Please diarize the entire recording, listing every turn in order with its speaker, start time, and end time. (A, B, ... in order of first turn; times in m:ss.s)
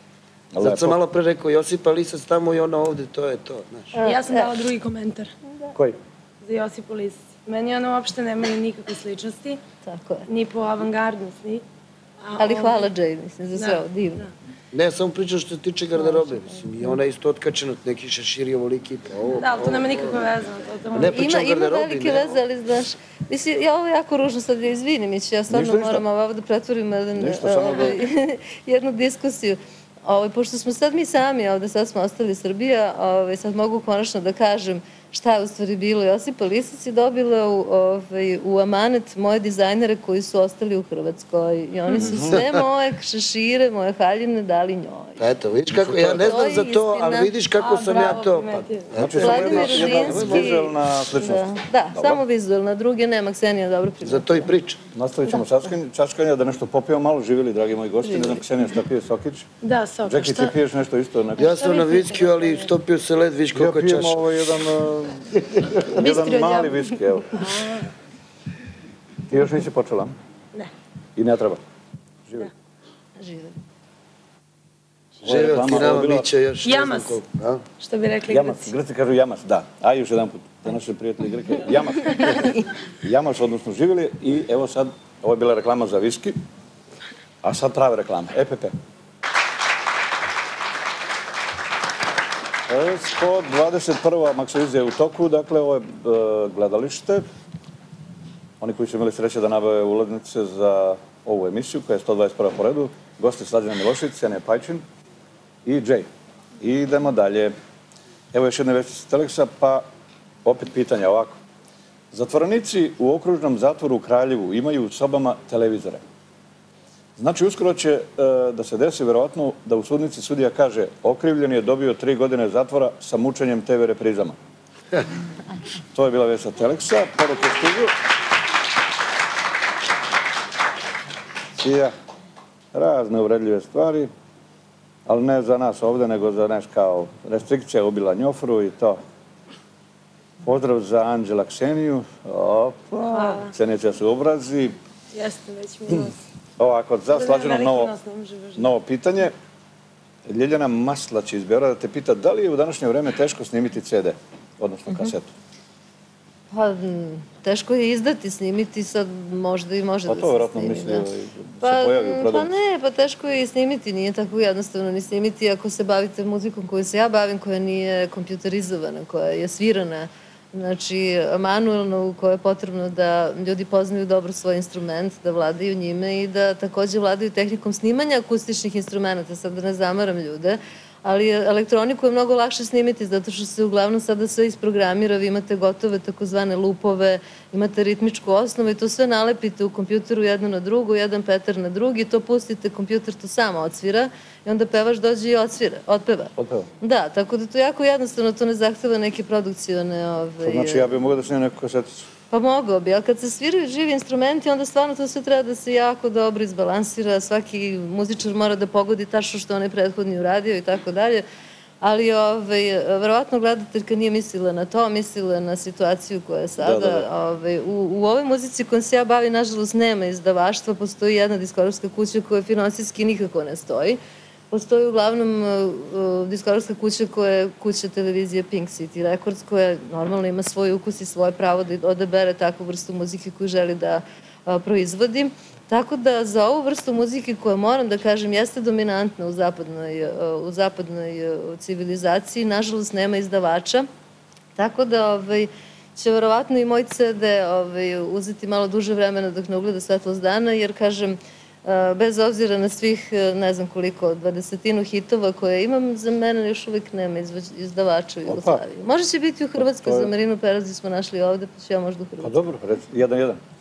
0:00.5-0:01.0 A
0:00.6-0:04.0 B
0:03.9-0:04.5 C
0:04.0-0:05.3 D
0:06.4-0:09.6 D
0:09.8-0:10.3 C
0:10.3-0:11.6 D
0:12.2-0:12.9 D
0:12.4-0:14.3 C
0:13.6-0:14.3 D
0:14.7-0:20.2 B
0:19.4-0:21.2 D
0:20.9-0:22.4 B
0:21.1-0:45.2 C
0:25.5-0:26.0 A
0:27.2-0:28.0 A
0:42.0-0:42.4 A
0:42.1-0:42.5 B
0:45.2-0:50.5 B
0:45.7-0:46.3 A
0:46.1-0:47.3 C
0:47.6-0:48.9 D
0:48.9-0:52.2 A
0:49.2-0:54.5 C
0:54.0-0:54.8 B
0:54.9-0:59.5 A
0:58.0-0:58.4 C
0:59.6-1:00.5 D
1:00.1-1:01.6 A
1:01.4-1:02.7 D
1:01.4-1:04.3 B
1:03.5-1:07.5 A
1:06.0-1:07.9 D
1:09.3-1:10.1 A
1:11.2-1:11.6 A
1:13.2-1:13.6 C
1:15.2-1:16.3 A
1:15.2-1:17.6 B
1:16.6-1:17.2 D
1:17.8-1:18.7 D
1:18.3-1:26.4 A
1:27.4-1:28.8 A
1:32.7-1:37.2 A
1:38.6-1:44.8 A
1:45.7-1:46.1 A
1:46.6-1:47.5 A
1:48.3-1:49.8 A
1:50.4-1:51.4 A
1:52.1-1:56.0 A
1:57.2-2:04.4 A
2:05.9-2:07.9 A
2:11.6-2:11.9 A
2:12.7-2:14.1 A
2:15.1-2:19.0 A
2:20.4-2:24.8 A
2:23.0-2:23.5 D
2:25.1-2:26.2 D
2:26.6-2:27.9 A
2:27.1-2:28.7 D
2:28.6-2:29.3 A
2:30.3-2:35.3 A
2:36.5-2:41.1 C
2:40.1-2:42.5 A
2:41.6-3:20.9 C
3:16.4-3:16.7 A
3:20.4-3:22.1 A
3:22.3-3:31.2 C
3:31.8-3:44.0 C
3:36.6-3:37.1 A
3:44.5-4:03.9 C
4:04.6-4:22.4 C
4:18.3-4:18.6 A
4:19.6-4:20.1 A
4:22.2-4:23.4 A